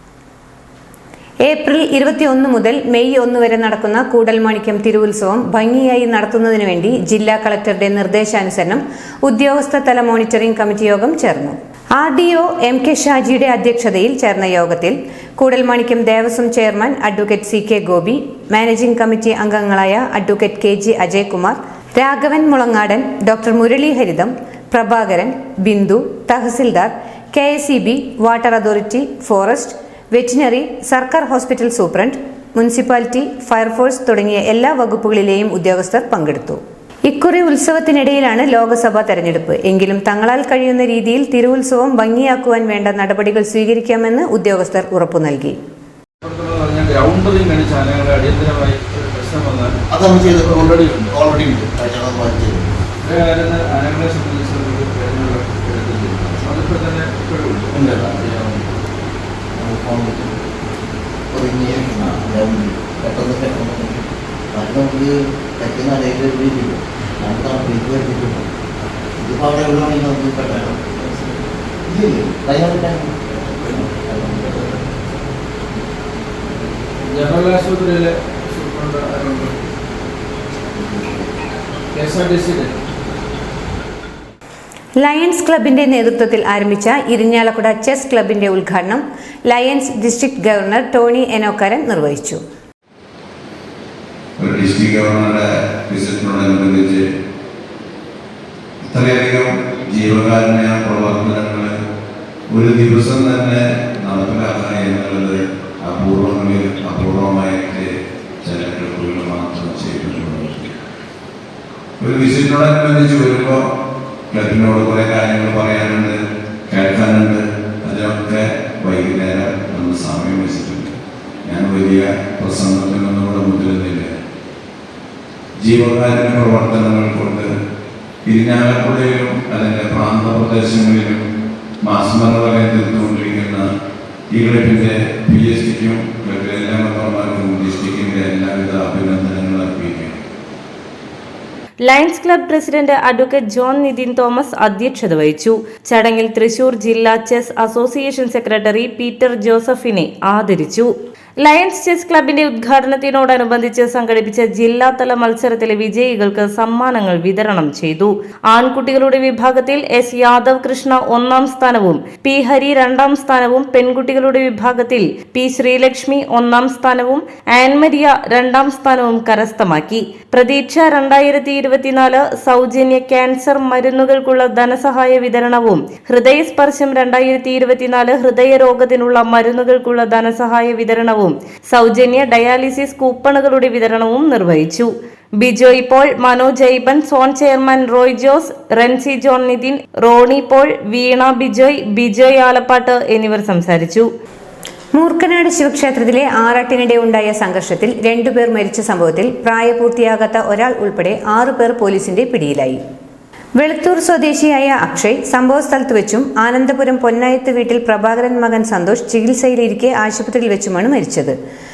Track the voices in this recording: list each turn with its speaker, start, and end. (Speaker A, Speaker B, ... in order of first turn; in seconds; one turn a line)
Speaker A: 1.5-45.6
Speaker B: 46.2-51.4
Speaker C: 49.9-52.7
Speaker B: 53.0-58.7
Speaker C: 57.7-58.3
Speaker C: 59.6-60.4
Speaker C: 61.3-68.5
Speaker C: 69.2-74.8
Speaker B: 74.4-74.7
Speaker B: 77.0-79.5
Speaker C: 80.8-81.3
Speaker B: 81.9-82.8
Speaker A: 85.0-92.4
Speaker D: 94.4-97.0
Speaker D: 98.9-101.7
Speaker D: 102.5-107.9
Speaker D: 108.4-110.7
Speaker D: 112.0-113.6
Speaker D: 114.3-116.2
Speaker D: 116.7-120.9
Speaker D: 121.5-124.1
Speaker D: 125.6-127.5
Speaker D: 128.3-131.2
Speaker D: 131.9-133.6
Speaker D: 134.3-140.2
Speaker E: 141.8-194.1
Speaker A: 195.0-202.8
Speaker A: 203.6-211.4